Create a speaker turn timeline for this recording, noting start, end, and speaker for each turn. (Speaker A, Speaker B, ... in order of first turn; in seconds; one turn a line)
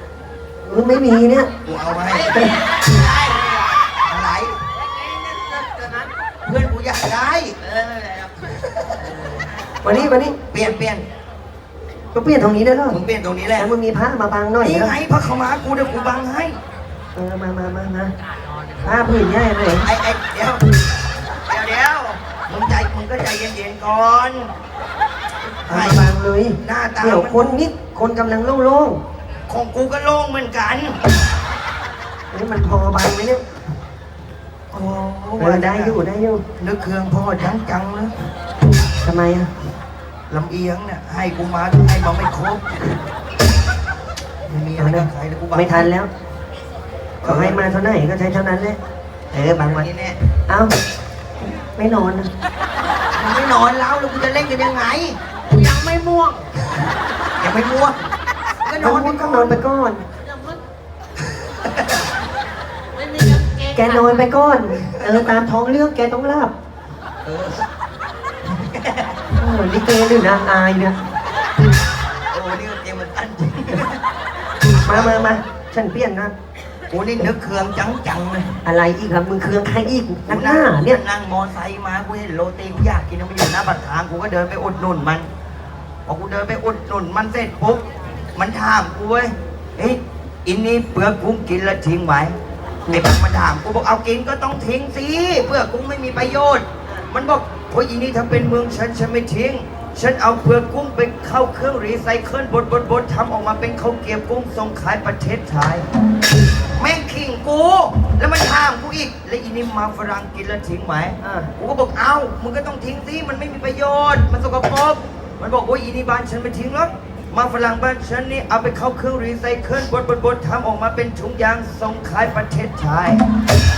Speaker A: 0.6-1.5
Speaker B: 1.6-2.4
Speaker C: 2.1-3.8
Speaker B: 4.0-4.6
Speaker C: 4.8-6.1
Speaker B: 6.4-7.5
Speaker C: 7.6-9.5
Speaker B: 8.6-9.1
Speaker A: 9.8-10.4
Speaker B: 10.5-11.0
Speaker A: 12.1-13.0
Speaker B: 12.9-13.7
Speaker A: 13.6-14.9
Speaker B: 14.6-16.6
Speaker A: 17.1-18.1
Speaker A: 18.8-19.9
Speaker B: 19.8-20.6
Speaker B: 21.5-24.5
Speaker B: 25.7-26.1
Speaker A: 25.7-29.0
Speaker B: 26.6-27.6
Speaker B: 29.5-31.0
Speaker A: 32.3-33.4
Speaker B: 34.7-36.0
Speaker A: 35.4-36.4
Speaker B: 36.6-38.1
Speaker A: 39.0-39.5
Speaker B: 40.3-42.8
Speaker B: 44.5-45.9
Speaker A: 44.8-46.1
Speaker B: 47.2-47.6
Speaker A: 47.2-48.8
Speaker A: 49.3-49.9
Speaker B: 49.7-50.2
Speaker A: 50.5-50.7
Speaker A: 51.4-52.3
Speaker B: 53.1-55.2
Speaker C: 55.5-56.5
Speaker B: 57.4-58.0
Speaker B: 58.6-59.6
Speaker A: 58.7-60.0
Speaker C: 60.2-60.6
Speaker B: 61.2-62.0
Speaker C: 62.9-64.3
Speaker A: 63.7-66.5
Speaker B: 64.8-65.3
Speaker B: 67.2-67.7
Speaker B: 68.5-69.2
Speaker A: 69.3-71.0
Speaker B: 72.3-74.0
Speaker A: 74.8-76.3
Speaker B: 74.8-75.4
Speaker B: 76.9-78.5
Speaker A: 78.6-81.0
Speaker B: 80.3-85.3
Speaker B: 86.0-87.8
Speaker B: 88.3-92.3
Speaker B: 92.9-105.9
Speaker B: 106.8-123.2
Speaker A: 111.2-111.5